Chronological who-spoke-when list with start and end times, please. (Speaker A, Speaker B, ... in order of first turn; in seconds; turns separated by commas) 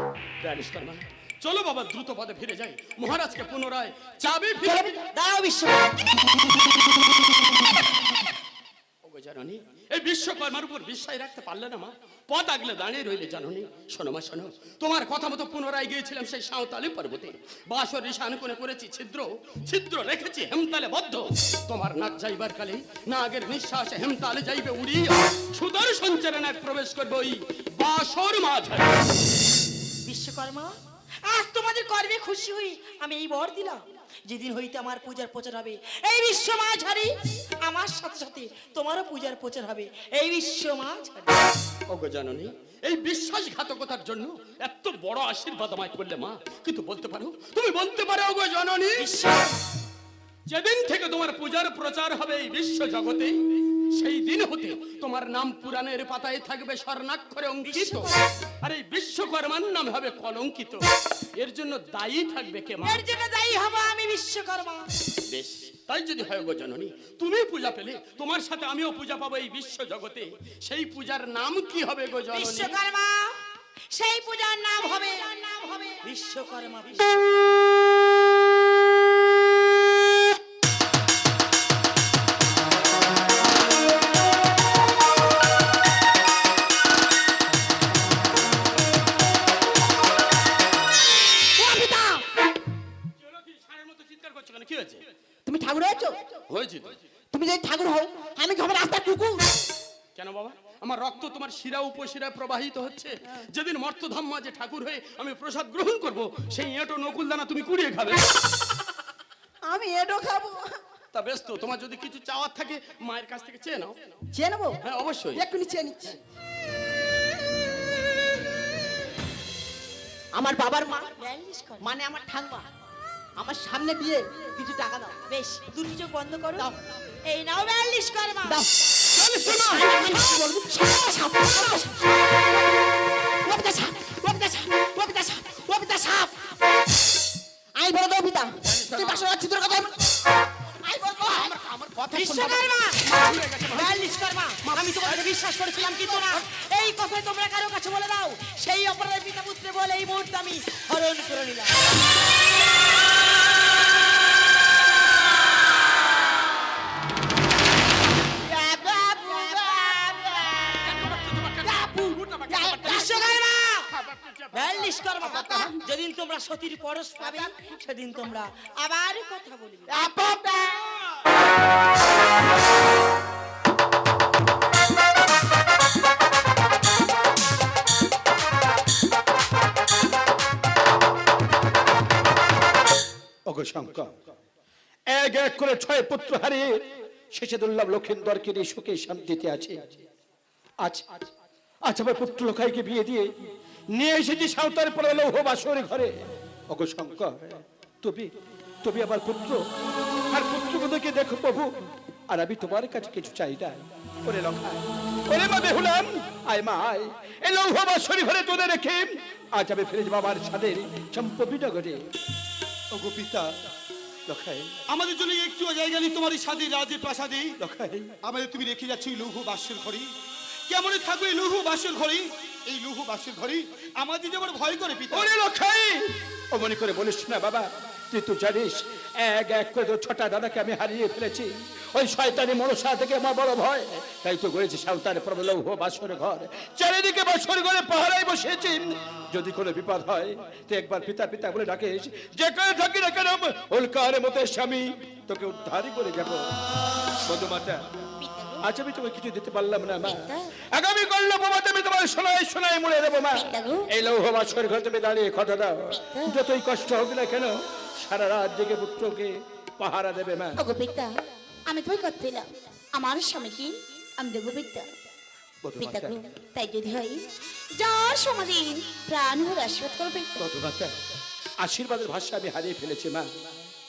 Speaker A: 0.4-4.9, Speaker B: 4.6-6.1, Speaker A: 9.0-29.0, Speaker B: 30.0-30.7, Speaker B: 31.3-37.1, Speaker B: 37.6-41.5, Speaker A: 41.9-49.1, Speaker B: 49.0-49.6, Speaker A: 50.5-58.1, Speaker B: 57.6-58.2, Speaker A: 58.6-60.8, Speaker A: 61.4-63.0, Speaker B: 62.8-64.9, Speaker A: 65.3-72.7, Speaker B: 72.3-73.3, Speaker B: 73.9-77.6, Speaker C: 91.6-92.2, Speaker A: 93.3-95.0, Speaker C: 95.5-96.3, Speaker A: 96.5-97.0, Speaker C: 97.3-99.6, Speaker A: 100.2-108.3, Speaker C: 109.6-110.8, Speaker A: 111.1-114.2, Speaker C: 114.3-114.8, Speaker A: 114.8-115.5, Speaker C: 115.3-116.2, Speaker C: 120.3-121.1, Speaker B: 121.1-121.9, Speaker C: 121.8-122.7, Speaker C: 123.4-125.2, Speaker B: 125.3-126.7, Speaker B: 127.3-128.6, Speaker C: 128.4-128.7, Speaker A: 129.2-129.9, Speaker C: 129.4-132.6, Speaker C: 133.4-136.5, Speaker C: 137.8-139.9, Speaker A: 138.6-139.4, Speaker C: 140.8-142.6, Speaker A: 141.2-142.1, Speaker B: 142.1-143.1, Speaker A: 143.0-144.1, Speaker B: 143.7-151.9, Speaker A: 144.6-145.2, Speaker C: 158.4-161.1, Speaker A: 160.7-165.7, Speaker C: 161.6-163.2, Speaker B: 162.8-163.9, Speaker B: 164.5-169.9, Speaker C: 165.4-165.7, Speaker C: 169.9-171.0, Speaker D: 183.4-184.1, Speaker D: 185.1-186.8, Speaker D: 187.3-190.0, Speaker D: 190.8-191.2, Speaker D: 191.8-193.3, Speaker D: 193.9-198.3, Speaker D: 198.8-199.6, Speaker D: 200.3-212.0, Speaker E: 213.0-213.4, Speaker D: 214.3-214.7, Speaker E: 214.9-217.6, Speaker D: 217.6-218.1, Speaker E: 218.2-220.1, Speaker E: 220.7-225.3, Speaker D: 225.1-246.4, Speaker D: 247.2-247.8, Speaker F: 248.2-248.7, Speaker D: 248.6-260.6, Speaker F: 250.0-250.5, Speaker F: 253.3-253.9, Speaker F: 260.6-264.9, Speaker D: 265.6-266.2, Speaker F: 265.8-270.4, Speaker D: 270.4-270.9, Speaker D: 271.6-273.3